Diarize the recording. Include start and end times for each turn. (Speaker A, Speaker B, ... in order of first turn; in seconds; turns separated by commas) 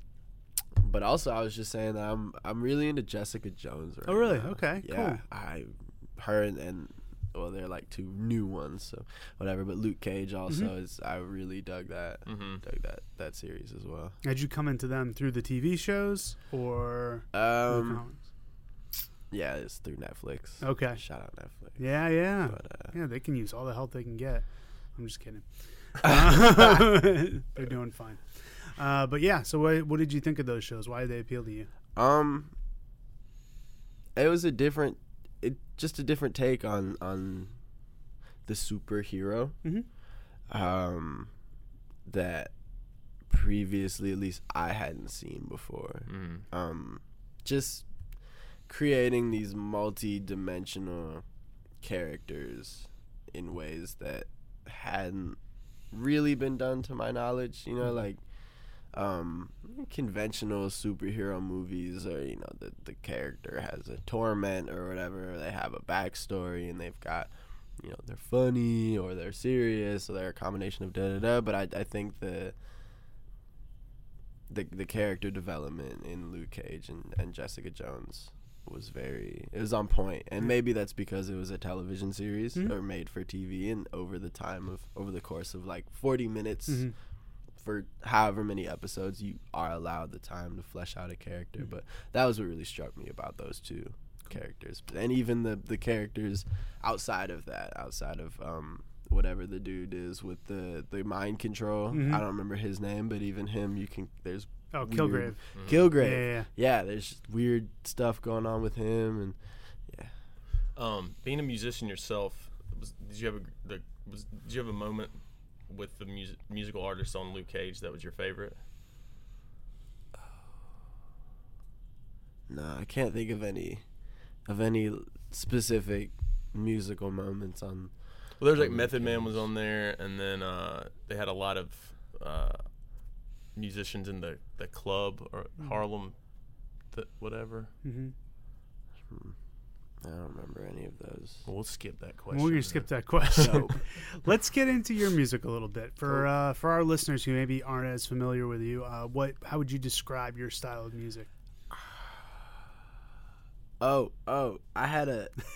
Speaker A: 0.8-14.2, Speaker B: 4.1-5.2, Speaker C: 12.3-12.6, Speaker B: 14.2-18.3, Speaker A: 17.3-18.0, Speaker A: 19.3-22.9, Speaker B: 20.6-21.0, Speaker B: 21.8-25.5, Speaker B: 26.0-31.7, Speaker A: 26.0-26.8, Speaker A: 32.0-32.5, Speaker A: 34.2-37.5, Speaker A: 38.5-39.6, Speaker A: 40.5-41.3, Speaker A: 42.1-42.5, Speaker A: 43.3-47.9, Speaker C: 46.1-46.4, Speaker A: 48.7-51.2, Speaker A: 51.8-55.4, Speaker A: 55.9-58.2, Speaker A: 58.9-72.6, Speaker A: 74.5-86.9, Speaker B: 86.7-86.9, Speaker A: 87.6-109.4, Speaker B: 101.9-102.2, Speaker B: 104.7-105.4, Speaker C: 105.5-105.9, Speaker B: 105.9-106.5, Speaker C: 110.8-118.6, Speaker A: 122.5-123.8, Speaker A: 124.5-127.9, Speaker C: 128.4-132.6, Speaker A: 128.5-129.5, Speaker C: 133.6-136.2, Speaker C: 136.9-137.7, Speaker B: 137.8-138.1, Speaker A: 139.1-139.3, Speaker A: 140.0-141.4, Speaker C: 141.5-143.7, Speaker B: 142.3-151.3, Speaker A: 143.2-143.8, Speaker A: 153.8-155.3